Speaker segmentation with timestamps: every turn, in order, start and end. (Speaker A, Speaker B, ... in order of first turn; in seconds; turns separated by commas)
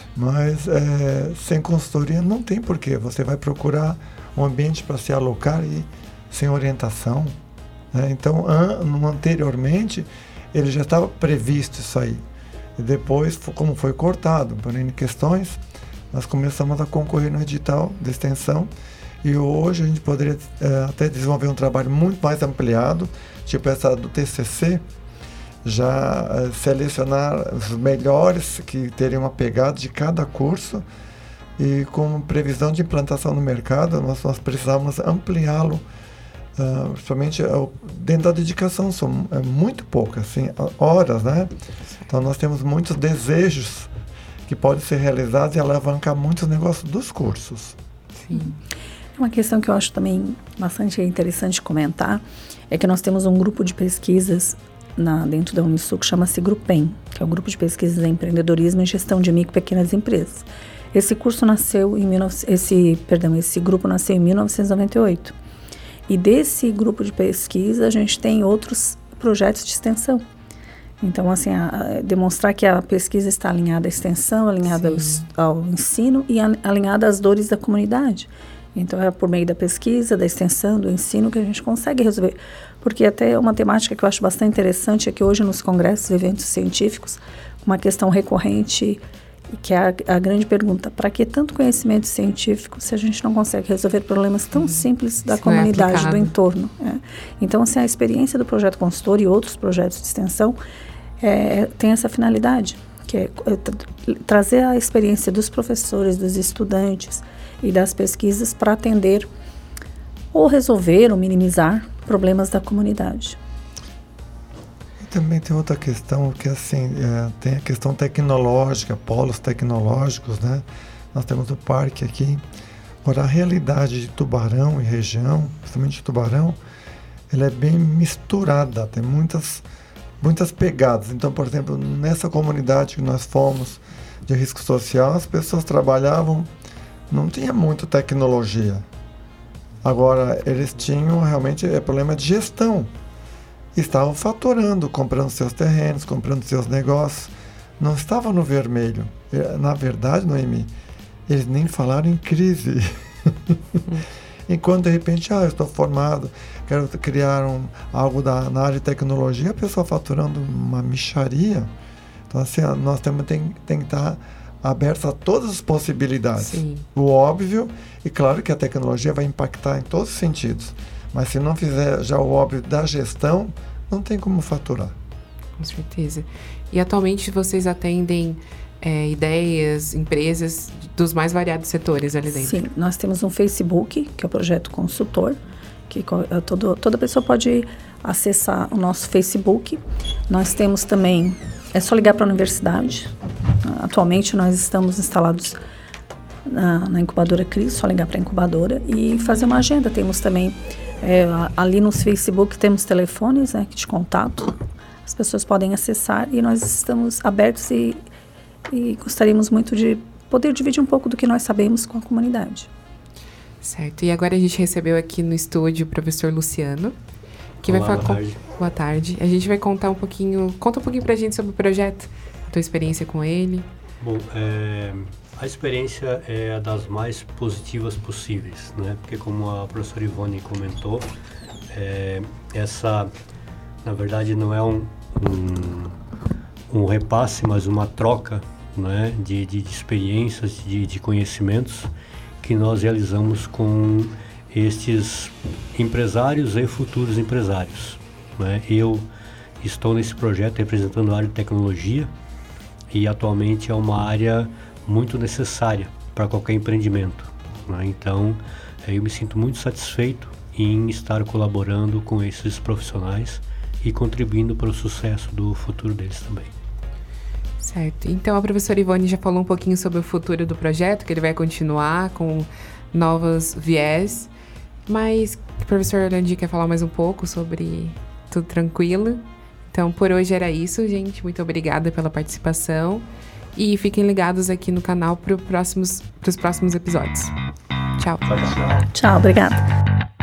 Speaker A: 0.1-7.4, Speaker A: 7.9-12.2, Speaker A: 12.8-15.6, Speaker A: 16.1-18.7, Speaker A: 19.2-24.8, Speaker A: 25.6-30.9, Speaker A: 31.6-35.8, Speaker A: 36.6-41.5, Speaker A: 42.1-43.9, Speaker A: 44.5-47.8, Speaker B: 48.2-48.6, Speaker C: 49.2-65.3, Speaker C: 66.1-70.2, Speaker C: 71.0-89.0, Speaker B: 74.7-75.2, Speaker C: 89.5-100.6, Speaker B: 95.3-96.3, Speaker C: 101.2-109.3, Speaker C: 110.3-113.4, Speaker A: 115.0-122.4, Speaker A: 123.0-126.6, Speaker A: 127.3-129.7, Speaker A: 130.2-136.5, Speaker A: 137.1-138.9, Speaker A: 139.8-142.9, Speaker A: 143.8-150.7, Speaker A: 151.3-153.6, Speaker A: 154.5-161.7, Speaker A: 162.3-174.9, Speaker B: 166.4-166.8, Speaker B: 175.6-182.6, Speaker C: 182.3-193.1, Speaker C: 193.6-195.6, Speaker C: 196.5-208.0, Speaker C: 208.7-212.7, Speaker B: 213.6-216.9, Speaker D: 217.6-218.4, Speaker B: 217.6-223.7, Speaker D: 224.0-231.1, Speaker D: 231.7-233.1, Speaker D: 233.8-236.0, Speaker D: 236.7-241.9, Speaker D: 242.4-249.1, Speaker D: 249.6-252.1, Speaker D: 252.9-266.5, Speaker B: 267.6-274.3, Speaker B: 274.9-287.3, Speaker B: 288.0-288.2, Speaker D: 288.3-288.9, Speaker C: 288.9-289.6